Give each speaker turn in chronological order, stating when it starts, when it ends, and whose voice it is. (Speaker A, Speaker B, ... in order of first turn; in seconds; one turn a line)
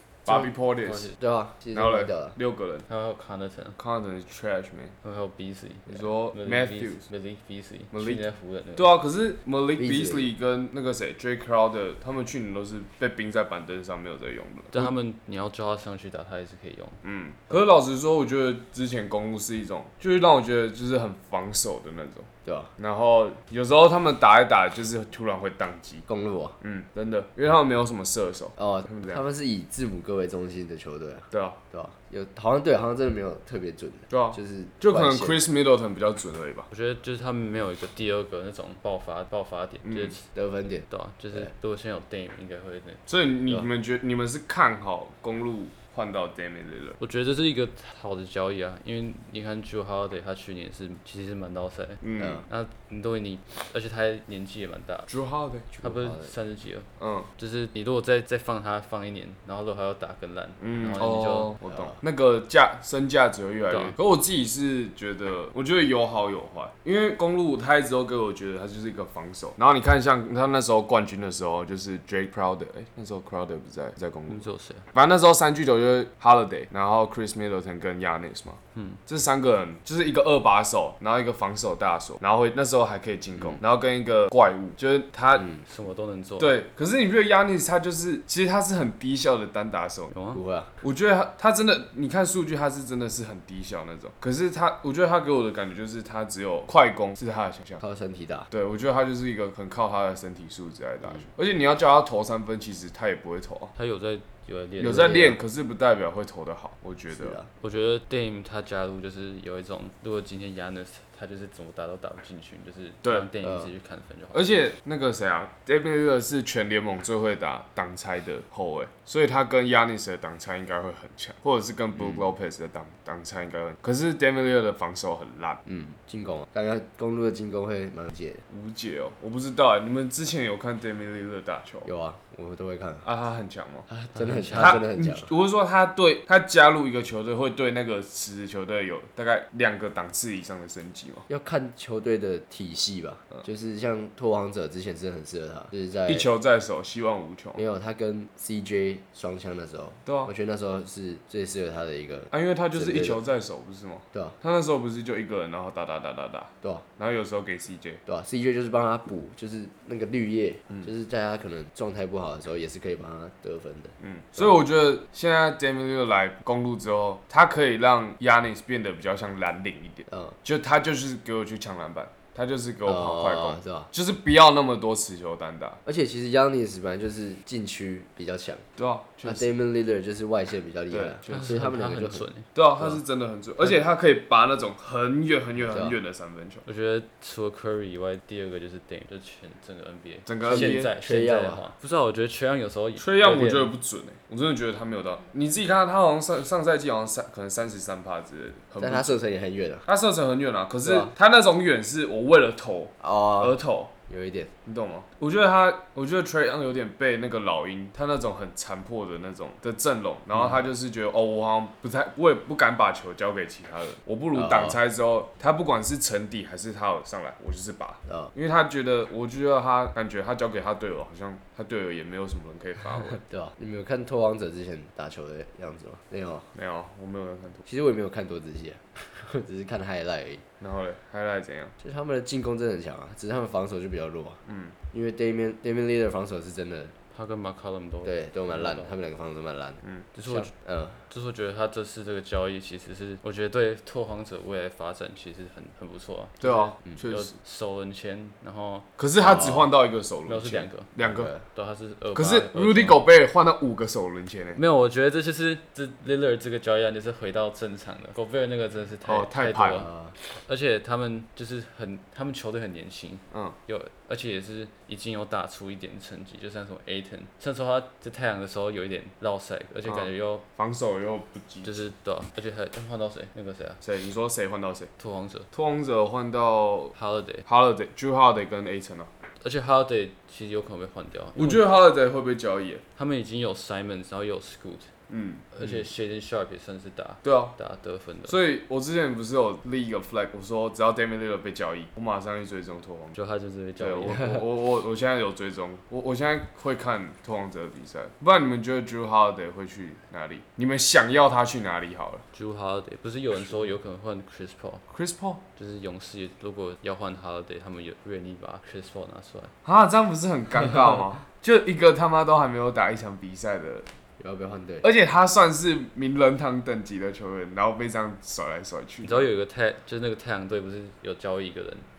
Speaker A: 0.2-1.1
Speaker B: 0.8-1.1
Speaker C: 1.1-2.3
Speaker A: 1.7-2.9
Speaker B: 2.9-3.8
Speaker A: 3.8-4.9
Speaker B: 5.0-8.9
Speaker A: 5.9-7.1
Speaker A: 7.9-8.2
Speaker A: 8.8-14.9
Speaker C: 9.8-10.3
Speaker B: 14.7-17.0
Speaker A: 17.0-26.0
Speaker C: 22.4-22.7
Speaker C: 26.1-26.6
Speaker A: 26.6-29.2
Speaker C: 28.6-35.4
Speaker A: 31.3-31.6
Speaker A: 34.1-36.7
Speaker B: 36.7-40.2
Speaker A: 39.8-40.1
Speaker C: 40.3-41.5
Speaker B: 40.9-43.0
Speaker A: 43.1-47.0
Speaker B: 47.0-55.1
Speaker A: 52.0-52.4
Speaker C: 52.2-52.4
Speaker A: 55.1-55.7
Speaker C: 55.7-56.3
Speaker B: 55.8-61.5
Speaker A: 57.0-57.3
Speaker A: 60.6-85.5
Speaker C: 61.6-62.0
Speaker B: 63.7-63.9
Speaker B: 74.3-74.9
Speaker B: 78.7-79.0
Speaker C: 85.4-85.6
Speaker B: 85.6-86.5
Speaker A: 86.4-90.1
Speaker B: 90.1-90.4
Speaker C: 90.3-90.7
Speaker A: 90.8-97.8
Speaker C: 97.8-98.5
Speaker A: 98.5-103.7
Speaker B: 103.8-105.3
Speaker A: 104.8-107.4
Speaker C: 104.8-105.4
Speaker C: 107.1-107.5
Speaker B: 107.6-114.5
Speaker C: 113.4-113.7
Speaker A: 114.3-125.6
Speaker C: 125.7-128.4
Speaker A: 128.5-131.9
Speaker C: 131.8-133.0
Speaker A: 133.0-133.9
Speaker C: 133.9-135.3
Speaker B: 134.2-134.8
Speaker A: 134.5-141.2
Speaker C: 141.3-146.3
Speaker A: 146.1-147.6
Speaker C: 147.6-153.2
Speaker A: 150.1-150.3
Speaker A: 152.3-158.0
Speaker C: 158.1-164.6
Speaker A: 164.0-175.8
Speaker C: 170.1-170.3
Speaker C: 172.8-173.9
Speaker C: 175.8-178.6
Speaker A: 178.8-179.5
Speaker C: 179.2-182.2
Speaker A: 180.9-181.6
Speaker B: 181.3-182.5
Speaker A: 182.5-186.6
Speaker C: 185.7-186.0
Speaker B: 186.7-193.7
Speaker A: 190.2-190.9
Speaker C: 190.4-191.6
Speaker A: 193.0-199.2
Speaker C: 198.8-199.8
Speaker A: 199.8-203.9
Speaker C: 200.8-201.1
Speaker C: 203.0-204.5
Speaker A: 204.7-223.2
Speaker C: 214.3-214.8
Speaker C: 218.1-218.3
Speaker C: 223.2-226.5
Speaker A: 226.5-227.6
Speaker C: 227.7-230.4
Speaker A: 230.6-231.7
Speaker C: 231.8-234.4
Speaker A: 234.5-234.7
Speaker C: 234.9-236.9
Speaker B: 237.1-238.9
Speaker C: 238.0-241.0
Speaker A: 239.8-240.1
Speaker B: 240.1-240.5
Speaker B: 241.1-248.9
Speaker A: 246.4-247.3
Speaker A: 249.0-251.3
Speaker C: 249.2-249.7
Speaker B: 250.2-250.9
Speaker C: 251.0-251.4
Speaker B: 251.5-253.0
Speaker A: 252.1-254.6
Speaker B: 254.6-270.4
Speaker A: 259.1-259.9
Speaker C: 259.8-260.1
Speaker A: 263.3-263.6
Speaker A: 269.9-271.8
Speaker B: 271.6-273.8
Speaker A: 273.8-274.9
Speaker B: 275.0-275.5
Speaker A: 275.5-279.1
Speaker B: 276.9-277.4
Speaker B: 279.4-281.6
Speaker A: 281.4-282.8
Speaker B: 282.9-284.9
Speaker A: 285.1-285.8
Speaker B: 285.5-288.4
Speaker A: 287.2-287.5
Speaker A: 288.3-293.2
Speaker B: 293.1-294.4
Speaker A: 293.8-302.2
Speaker B: 302.3-304.8
Speaker A: 303.4-303.7
Speaker A: 304.9-305.4
Speaker B: 305.6-309.5
Speaker A: 309.6-313.9
Speaker C: 314.2-314.9
Speaker A: 314.8-319.3
Speaker B: 319.0-321.9